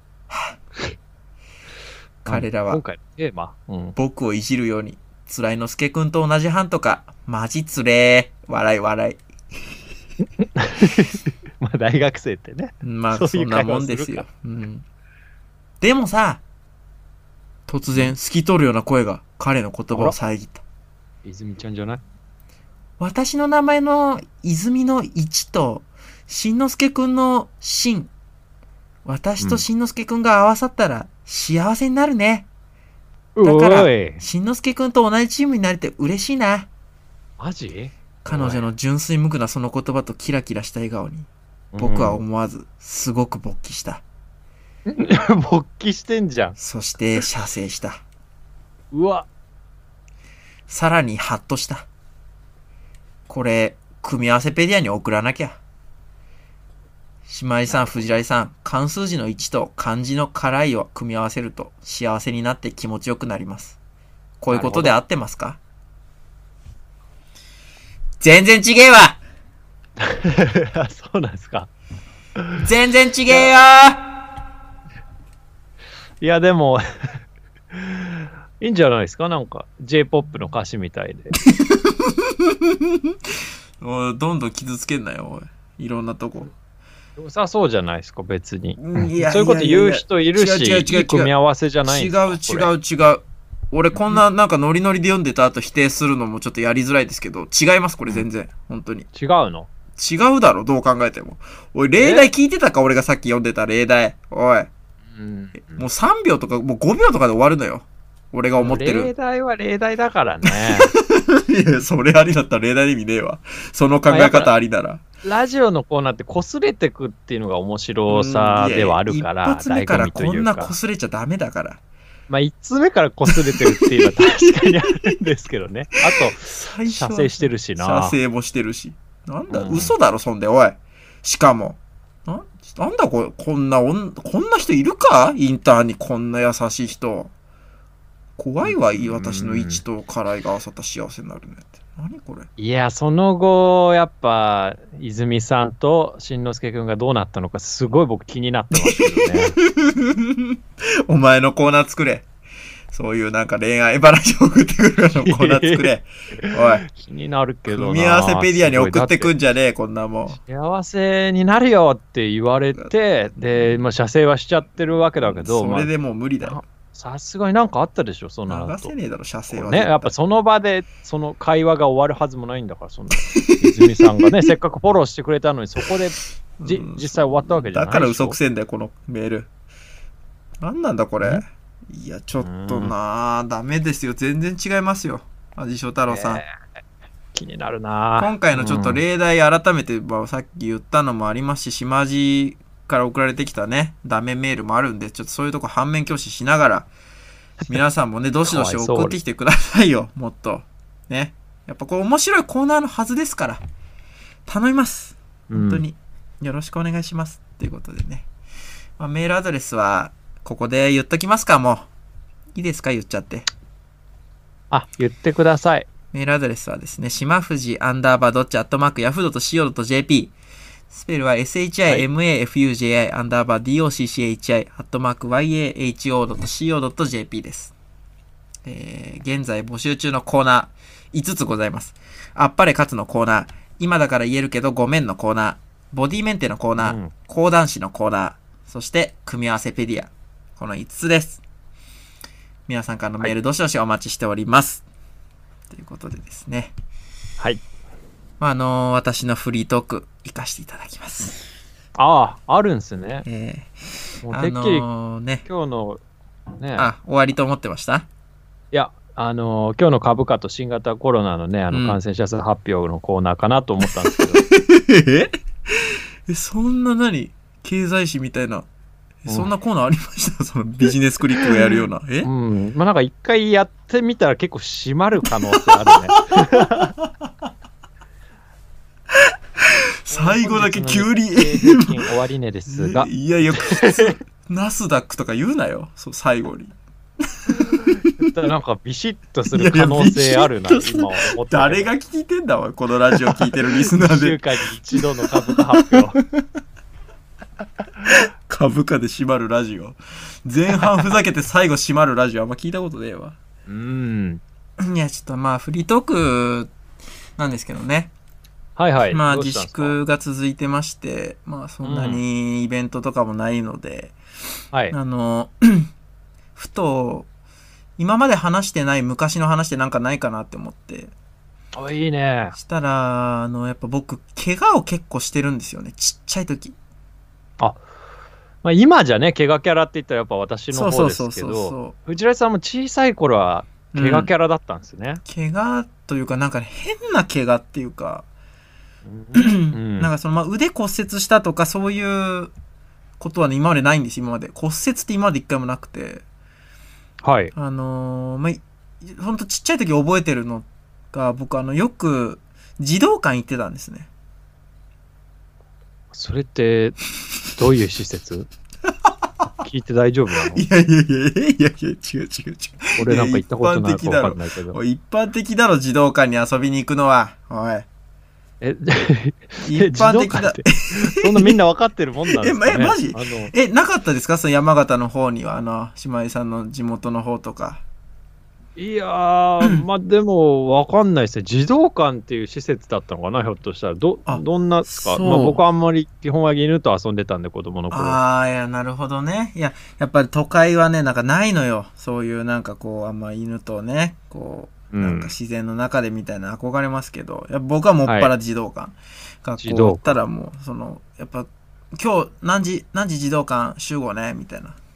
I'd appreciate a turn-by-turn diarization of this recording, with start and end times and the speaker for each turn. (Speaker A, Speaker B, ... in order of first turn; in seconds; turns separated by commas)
Speaker A: 0.3-0.6, Speaker A: 2.2-2.8, Speaker B: 2.3-4.0, Speaker A: 4.0-9.2, Speaker B: 10.4-14.2, Speaker A: 12.8-14.8, Speaker A: 15.8-16.4, Speaker A: 17.7-20.6, Speaker B: 21.2-22.0, Speaker A: 23.0-28.1, Speaker A: 29.0-32.5, Speaker B: 29.4-29.6, Speaker B: 33.4-34.2, Speaker A: 33.4-36.7, Speaker B: 37.4-38.6, Speaker A: 38.2-41.3, Speaker B: 41.7-42.2, Speaker A: 41.8-44.0, Speaker B: 44.9-46.6, Speaker A: 46.6-48.0, Speaker B: 48.9-49.3, Speaker A: 50.7-51.9, Speaker A: 53.3-55.6, Speaker A: 57.2-63.8, Speaker B: 57.7-58.0, Speaker A: 64.4-65.6, Speaker B: 64.5-65.0, Speaker A: 68.2-69.2, Speaker B: 70.0-71.7, Speaker A: 72.6-74.0, Speaker B: 76.2-77.1, Speaker B: 77.7-81.4, Speaker A: 81.5-86.5, Speaker B: 87.2-92.7, Speaker A: 88.8-91.3, Speaker A: 91.8-99.0, Speaker B: 93.9-94.2, Speaker B: 99.1-99.7, Speaker A: 100.0-104.7, Speaker B: 102.0-102.3, Speaker B: 105.1-105.8, Speaker A: 105.7-109.1, Speaker B: 108.6-110.9, Speaker A: 110.5-115.0, Speaker B: 114.1-114.5, Speaker B: 115.2-120.7, Speaker A: 118.1-121.8, Speaker B: 122.3-128.2, Speaker A: 123.3-124.1, Speaker A: 126.2-137.3, Speaker B: 129.5-129.9, Speaker A: 138.4-142.5, Speaker B: 138.6-139.8, Speaker B: 142.6-149.6, Speaker A: 148.7-152.2, Speaker A: 152.9-156.8, Speaker B: 155.1-159.3, Speaker A: 157.7-160.4, Speaker B: 160.3-165.9, Speaker A: 162.7-163.7, Speaker A: 165.2-166.6, Speaker B: 166.4-168.9, Speaker A: 168.5-170.1, Speaker B: 169.5-178.4, Speaker A: 173.2-174.3, Speaker A: 176.6-179.5, Speaker A: 180.6-186.4, Speaker B: 182.4-182.9, Speaker B: 186.1-186.5, Speaker B: 187.3-189.0, Speaker A: 188.2-196.9, Speaker A: 197.7-203.6, Speaker B: 198.4-199.2, Speaker A: 204.5-208.3, Speaker B: 205.5-205.8, Speaker A: 209.0-211.9, Speaker A: 212.5-213.5, Speaker B: 214.7-215.9, Speaker A: 216.1-220.3, Speaker A: 220.9-227.7, Speaker A: 228.6-241.4, Speaker B: 236.8-237.1, Speaker A: 242.7-244.8, Speaker A: 245.7-246.7, Speaker A: 248.4-251.4, Speaker B: 252.0-253.2, Speaker A: 253.2-253.7, Speaker B: 254.2-254.9, Speaker A: 254.3-255.4, Speaker B: 255.4-256.0, Speaker B: 256.6-256.9, Speaker A: 256.8-258.1, Speaker B: 258.7-264.4, Speaker A: 261.7-262.0, Speaker A: 264.4-268.7, Speaker A: 269.2-272.3, Speaker B: 272.2-276.9, Speaker A: 275.9-276.4, Speaker A: 280.1-282.0, Speaker B: 280.1-284.2, Speaker A: 282.7-286.7, Speaker A: 287.5-287.9, Speaker B: 287.6-291.9, Speaker A: 289.5-294.4, Speaker B: 293.3-296.2, Speaker A: 294.9-296.4, Speaker A: 298.0-303.4, Speaker B: 303.7-304.4, Speaker A: 304.8-306.7, Speaker A: 307.4-308.1, Speaker B: 308.8-310.0, Speaker A: 309.1-314.1, Speaker B: 311.8-312.2, Speaker A: 314.9-315.9, Speaker A: 316.6-317.3, Speaker A: 318.0-321.1, Speaker B: 321.7-322.6, Speaker A: 322.5-326.8, Speaker B: 328.6-335.2, Speaker A: 330.7-331.9, Speaker A: 333.9-334.3, Speaker A: 335.2-338.2, Speaker B: 339.1-340.1, Speaker A: 339.3-342.5, Speaker A: 343.2-346.2, Speaker B: 347.2-347.5, Speaker A: 347.5-354.1, Speaker B: 356.1-357.0, Speaker B: 357.5-358.5, Speaker B: 359.6-360.6, Speaker A: 360.5-367.9, Speaker B: 363.0-364.8, Speaker B: 368.6-373.5, Speaker A: 369.6-371.6, Speaker A: 372.3-377.8, Speaker B: 378.8-388.2, Speaker A: 384.2-385.6, Speaker A: 387.9-404.8, Speaker B: 394.9-395.3, Speaker B: 398.0-398.3, Speaker B: 399.6-400.2